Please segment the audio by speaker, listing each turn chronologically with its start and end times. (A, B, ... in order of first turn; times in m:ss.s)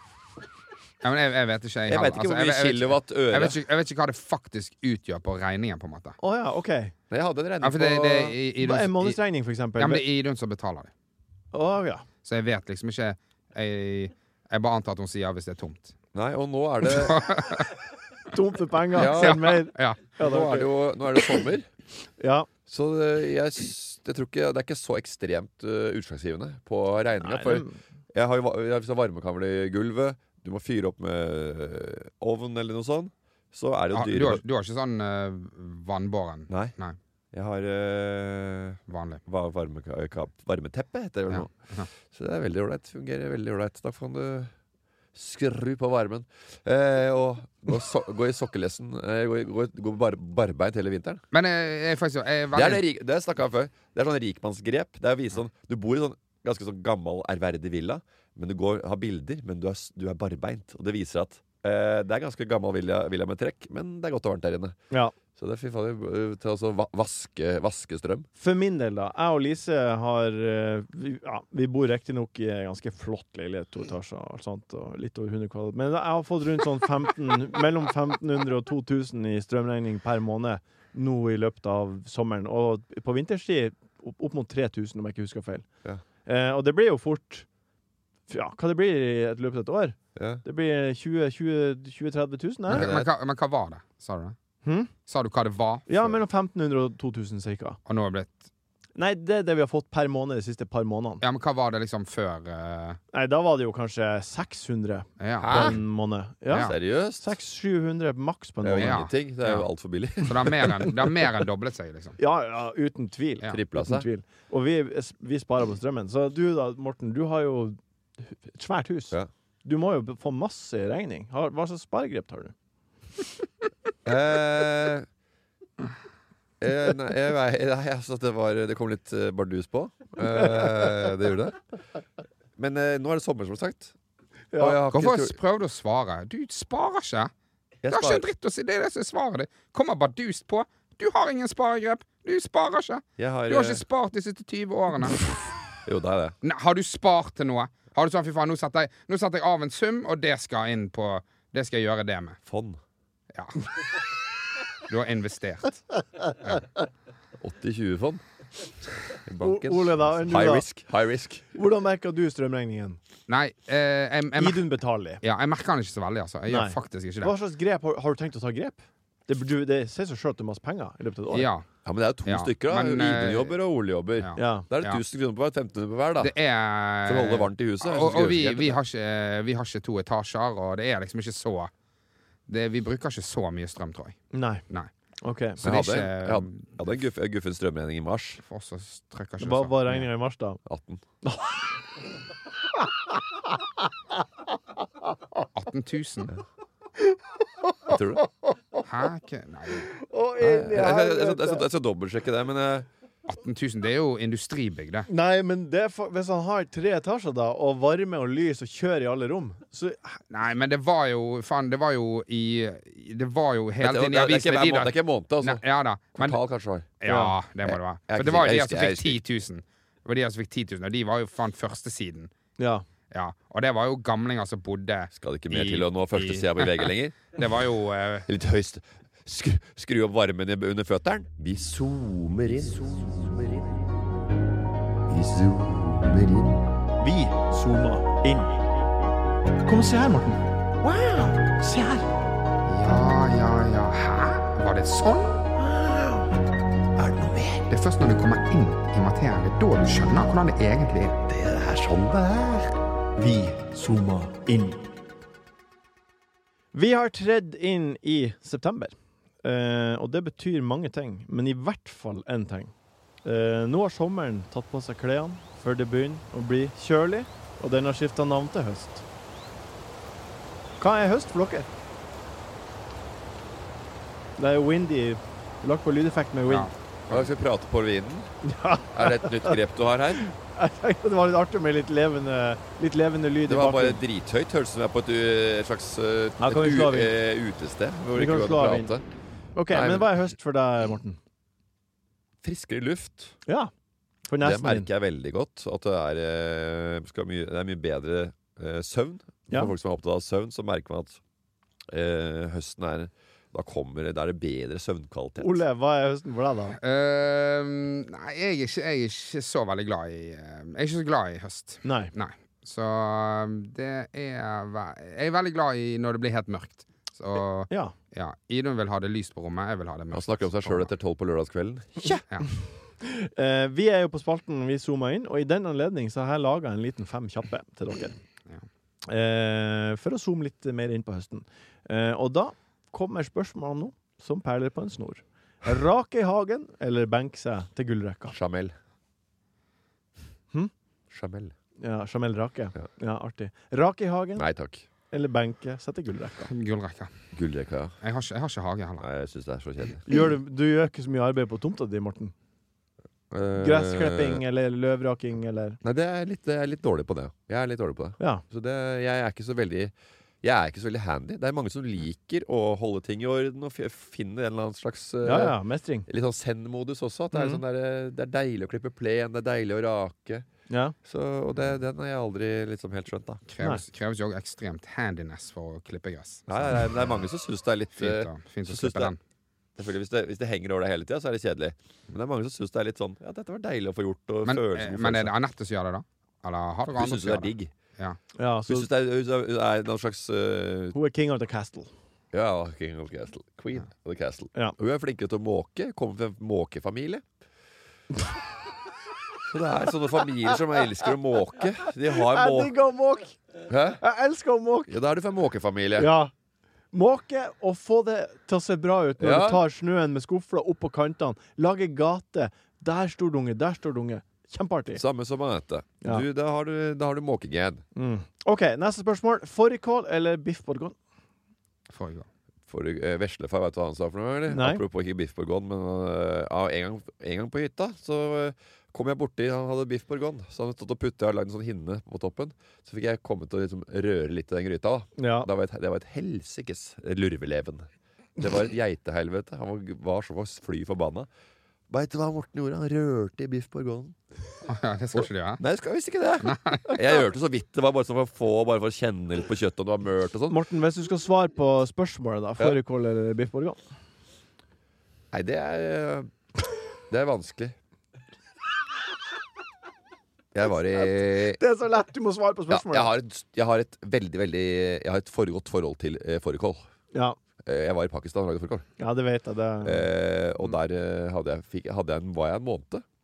0:01.0-0:06.2 A
0:01.9-0:03.6 B
0:06.2-0:06.9 C
0:07.1-0:08.4 B
0:07.6-0:09.2 A
0:08.6-0:10.0 C
0:09.8-0:10.9 A
0:11.5-0:12.0 C
0:12.2-0:15.9 A
0:16.1-0:17.2 B
0:17.0-0:17.7 A
0:18.3-0:20.7 C
0:18.9-0:19.6 B
0:19.0-0:20.1 A
0:20.2-0:21.7 B
0:22.2-0:22.5 C
0:22.7-0:34.4 B
0:27.2-0:27.8 C
0:33.9-0:37.0 A
0:36.5-0:36.7 B
0:37.3-0:41.5 B
0:38.9-0:39.2 A
0:41.3-0:41.9 A
0:42.1-0:44.5 B
0:45.1-0:51.2 B
0:51.3-0:52.8 A
0:52.5-1:04.8 B
1:05.4-1:08.3 B
1:08.4-1:25.7 C
1:26.2-1:27.4 C
1:28.3-1:32.9 C
1:30.2-1:30.4 B
1:32.7-1:33.1 B
1:32.7-1:34.4 A
1:34.6-1:34.9 C
1:35.0-1:36.1 A
1:35.9-1:37.8 C
1:37.8-1:38.5 A
1:39.0-1:41.2 C
1:41.2-1:43.0 A
1:43.1-1:49.0 C
1:45.2-1:45.8 A
1:45.4-1:45.8 B
1:46.5-1:47.3 B
1:48.6-1:50.9 B
1:48.8-1:49.7 A
1:50.2-1:52.2 A
1:52.2-2:02.5 C
1:53.4-1:54.1 B
2:04.0-2:05.1 B
2:06.6-2:11.6 B
2:12.6-2:13.9 B
2:14.5-2:14.8 C
2:14.6-2:15.4 B
2:14.9-2:17.3 A
2:17.8-2:18.2 B
2:17.9-2:25.2 A
2:23.2-2:23.8 B
2:25.8-2:26.4 B
2:26.4-2:32.4 A
2:32.4-2:32.8 B
2:33.3-2:33.6 A
2:34.9-2:35.8 A
2:37.4-2:38.2 B
2:39.1-2:41.4 B
2:39.4-2:40.6 C
2:41.5-2:43.0 C
2:43.3-2:44.7 A
2:44.4-2:45.2 C
2:45.2-2:47.3 A
2:46.5-2:51.5 C
2:51.3-2:51.6 A
2:51.8-2:56.3 B
2:52.2-2:53.6 A
2:54.2-2:55.0 A
2:54.4-2:54.7 C
2:56.2-3:01.7 A
2:57.0-2:58.8 B
3:02.5-3:04.9 A
3:04.3-3:04.6 C
3:05.2-3:05.6 C
3:05.6-3:06.7 A
3:05.6-3:08.4 B
3:08.4-3:10.1 A
3:09.4-3:10.6 C
3:10.6-3:11.0 B
3:11.2-3:11.6 C
3:15.5-3:16.3 A
3:17.8-3:18.2 B
3:18.8-3:19.9 A
3:19.9-3:21.6 C
3:20.4-3:22.9 B
3:23.3-3:25.1 A
3:25.1-3:30.2 C
3:30.3-3:36.4 A
3:33.8-3:35.6 B
3:36.2-3:36.9 B
3:37.0-3:42.3 A
3:37.0-3:37.3 C
3:37.6-3:39.2 B
3:42.6-3:42.8 C
3:43.1-3:48.2 A
3:45.1-3:47.3 B
3:48.3-3:53.8 B
3:55.1-3:56.6 B
3:57.0-3:58.6 C
3:59.6-4:00.4 C
4:01.4-4:02.0 C
4:02.6-4:05.4 A
4:07.0-4:07.6 B
4:07.7-4:11.2 A
4:11.3-4:12.7 B
4:13.2-4:14.8 C
4:16.7-4:22.7 C
4:23.2-4:29.0 C
4:30.8-4:31.7 C
4:34.4-4:36.7 C
4:36.5-4:37.3 A
4:37.1-4:38.3 B
4:38.4-4:39.6 C
4:38.9-4:40.2 B
4:40.2-4:44.0 C
4:43.4-4:49.0 B
4:46.4-4:47.1 C
4:48.1-4:48.9 C
4:49.5-4:51.2 C
4:49.7-4:50.2 B
4:52.4-4:53.4 B
4:53.4-4:53.7 C
4:54.2-4:54.9 C
4:54.4-5:01.2 B
5:01.9-5:05.6 B
5:05.4-5:06.8 C
5:06.8-5:20.9 A
5:11.8-5:12.1 C
5:20.1-5:22.2 B
5:23.0-5:28.2 C
5:29.1-5:38.3 C
5:38.3-5:38.7 B
5:41.1-5:41.5 B
5:41.8-5:44.4 C
5:44.4-5:44.8 B
5:45.1-5:46.5 C
5:46.5-5:47.1 A
5:47.3-5:48.0 B
5:48.0-5:49.0 A
5:49.0-5:50.0 B
5:50.1-5:52.3 C
5:53.3-5:54.4 B
5:53.6-5:55.8 C
5:55.8-6:10.4 B
6:05.2-6:06.1 C
6:07.3-6:07.6 C
6:10.7-6:10.9 C
6:11.0-6:13.4 B
6:13.5-6:16.9 A
6:16.5-6:19.1 B
6:18.0-6:19.2 A
6:19.8-6:25.3 B
6:24.4-6:28.2 A
6:26.9-6:27.7 B
6:28.4-6:28.9 C
6:28.7-6:31.0 B
6:30.9-6:31.9 C
6:32.3-6:37.2 B
6:39.4-6:42.7 B
6:42.1-6:43.4 C
6:43.7-6:44.0 B
6:44.0-6:44.9 C
6:44.9-6:46.1 B
6:46.0-6:46.3 C
6:46.9-6:55.0 C
6:49.2-6:49.6 B
6:54.9-6:57.8 B
6:57.9-7:01.0 C
7:01.9-7:02.3 A
7:02.7-7:21.3 B
7:04.5-7:04.8 C
7:15.2-7:15.5 C
7:21.9-7:24.2 B
7:24.6-7:25.6 A
7:25.2-7:30.6 B
7:26.4-7:27.0 A
7:30.5-7:33.8 C
7:35.3-7:36.3 B
7:37.1-7:37.7 B
7:40.5-7:41.6 B
7:41.3-7:43.1 C
7:42.7-7:46.8 B
7:47.1-7:47.4 C
7:47.6-7:48.9 B
7:49.0-7:50.1 C
7:49.8-7:53.0 B